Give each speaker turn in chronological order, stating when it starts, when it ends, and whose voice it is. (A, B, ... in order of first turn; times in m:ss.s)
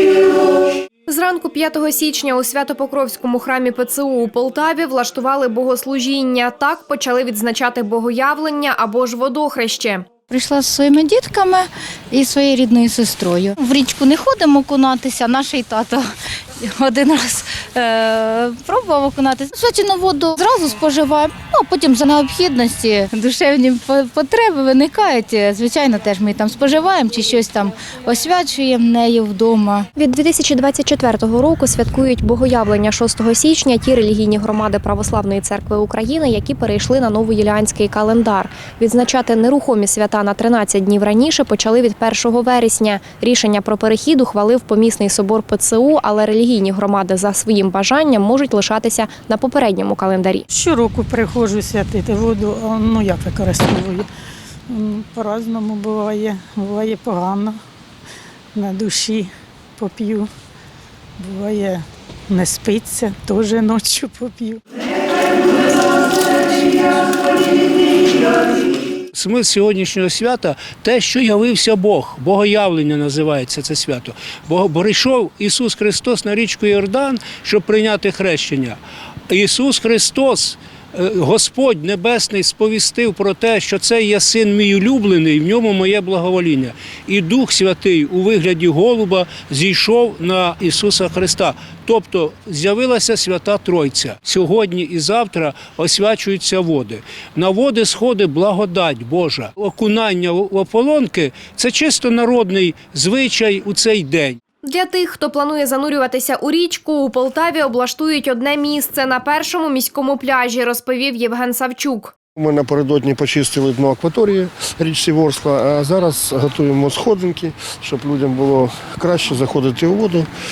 0:01.1-0:10.1 A
0:10.3-0:16.0 B
0:16.7-0:29.8 B
0:30.0-0:50.4 A
0:50.5-0:54.0 C
0:54.7-0:57.6 C
0:58.6-1:00.3 C
1:01.2-1:04.6 C
1:09.1-1:18.8 D
1:19.3-1:44.4 D
1:44.6-1:52.1 A
1:52.4-2:00.3 E